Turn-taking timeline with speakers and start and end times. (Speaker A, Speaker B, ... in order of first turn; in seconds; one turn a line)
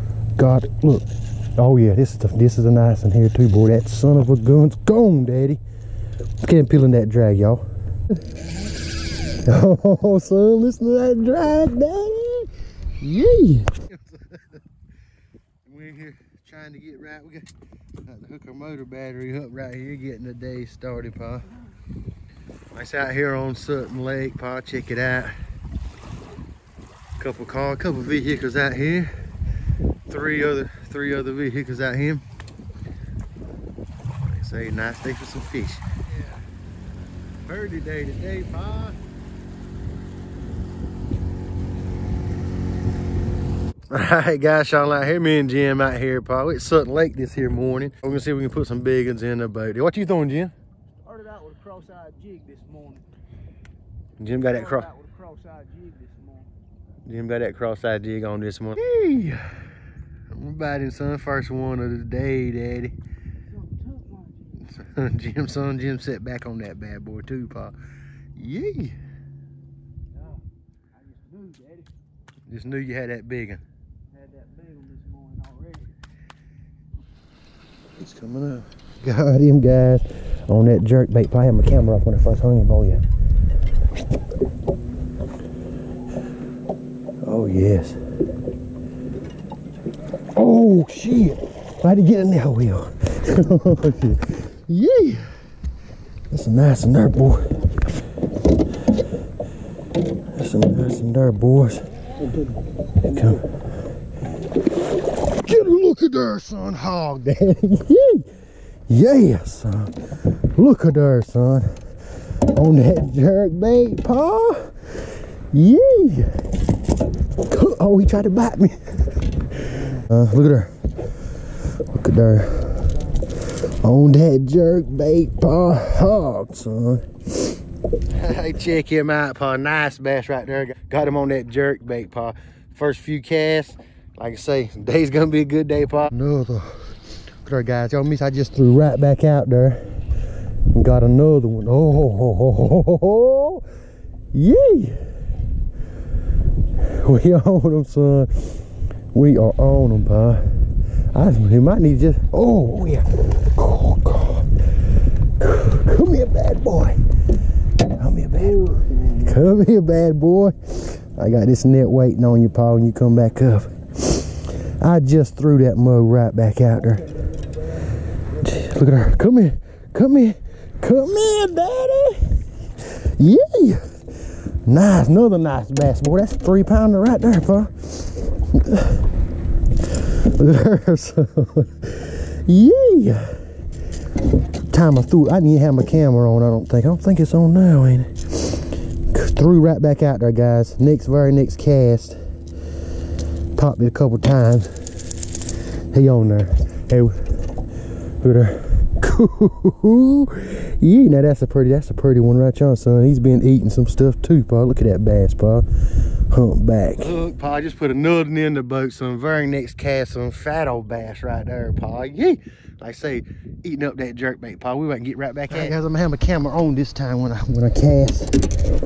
Speaker A: 0.4-5.6
Speaker A: 6.4-7.7
Speaker A: 9.4-14.6
Speaker A: 15.7-17.5
Speaker A: 18.0-21.5
Speaker A: 22.7-25.4
Speaker A: 27.2-29.2
Speaker A: 30.1-32.2
Speaker A: 34.1-36.4
Speaker A: 37.5-39.0
Speaker A: 43.9-50.5
Speaker B: 51.1-53.0
Speaker A: 54.2-55.0
Speaker B: 54.9-56.5
Speaker A: 57.0-59.6
Speaker A: 60.3-63.0
Speaker B: 63.9-64.2
Speaker A: 64.5-67.8
Speaker A: 68.3-69.0
Speaker B: 71.2-71.9
Speaker A: 72.5-73.6
Speaker B: 74.3-75.9
Speaker A: 78.0-83.0
Speaker A: 87.2-88.0
Speaker A: 90.3-95.4
Speaker A: 96.3-97.6
Speaker A: 100.3-101.9
Speaker A: 103.0-103.6
Speaker A: 105.2-108.4
Speaker A: 108.9-116.5
Speaker A: 117.4-119.2
Speaker A: 119.7-120.9
Speaker A: 121.6-140.0
Speaker A: 140.7-143.7
Speaker A: 144.3-145.1
Speaker A: 146.8-150.5
Speaker A: 151.1-154.6
Speaker A: 155.2-157.0
Speaker A: 157.8-179.1
Speaker A: 179.8-183.5
Speaker A: 184.7-192.2
Speaker A: 193.6-195.0
Speaker A: 195.9-197.6
Speaker A: 198.2-218.5